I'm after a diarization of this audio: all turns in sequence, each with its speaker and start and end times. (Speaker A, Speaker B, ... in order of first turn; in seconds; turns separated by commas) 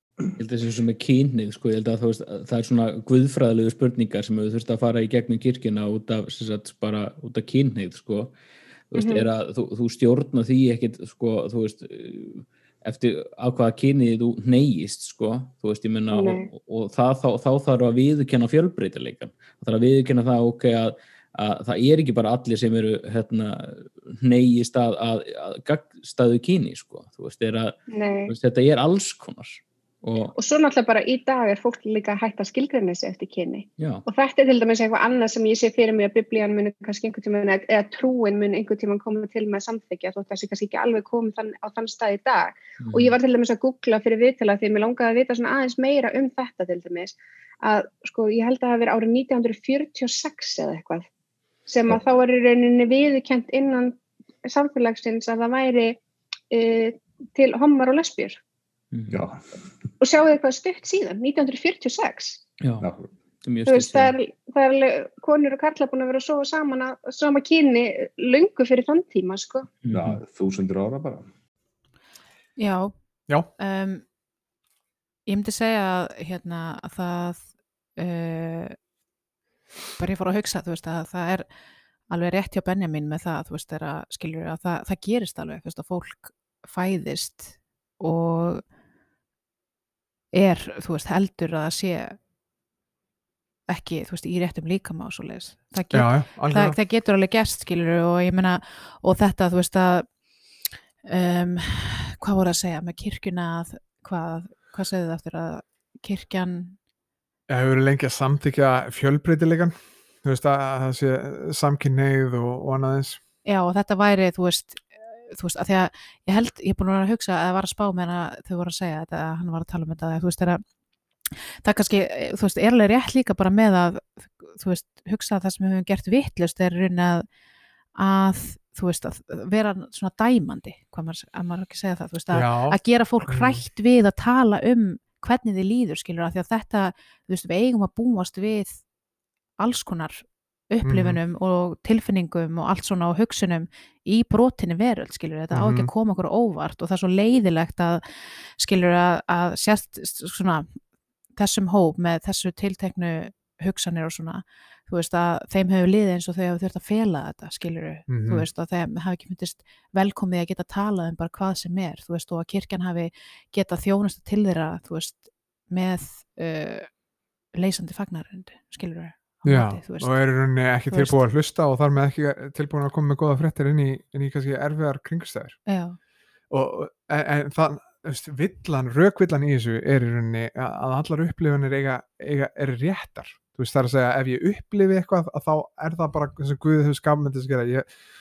Speaker A: 0.4-8.3, Speaker A: 8.9-27.8, Speaker B: 9.0-9.2, Speaker B: 16.1-16.5, Speaker B: 27.9-28.3, Speaker A: 28.3-30.3, Speaker B: 30.4-51.1, Speaker A: 33.8-34.0, Speaker A: 42.8-43.2, Speaker B: 51.7-58.4, Speaker C: 59.1-59.6, Speaker B: 60.0-62.4, Speaker A: 62.6-62.9, Speaker C: 62.8-63.1, Speaker A: 63.4-64.2, Speaker B: 63.7-69.7, Speaker A: 69.8-70.2, Speaker C: 69.9-71.3, Speaker D: 72.6-72.9, Speaker D: 73.6-74.0, Speaker D: 75.3-78.8, Speaker D: 80.0-81.5, Speaker D: 82.1-88.6, Speaker D: 90.3-92.2, Speaker D: 93.7-100.1, Speaker E: 95.9-96.8, Speaker D: 101.0-106.8, Speaker E: 107.5-113.2, Speaker D: 113.5-120.6, Speaker D: 121.6-127.2, Speaker D: 128.0-138.8, Speaker E: 132.3-133.6, Speaker D: 139.6-150.8, Speaker E: 140.8-141.2, Speaker E: 145.5-145.9, Speaker D: 151.3-166.9, Speaker E: 158.1-158.5, Speaker D: 167.5-170.2, Speaker E: 169.4-175.6, Speaker D: 170.9-171.2, Speaker D: 175.7-176.0, Speaker E: 176.5-187.9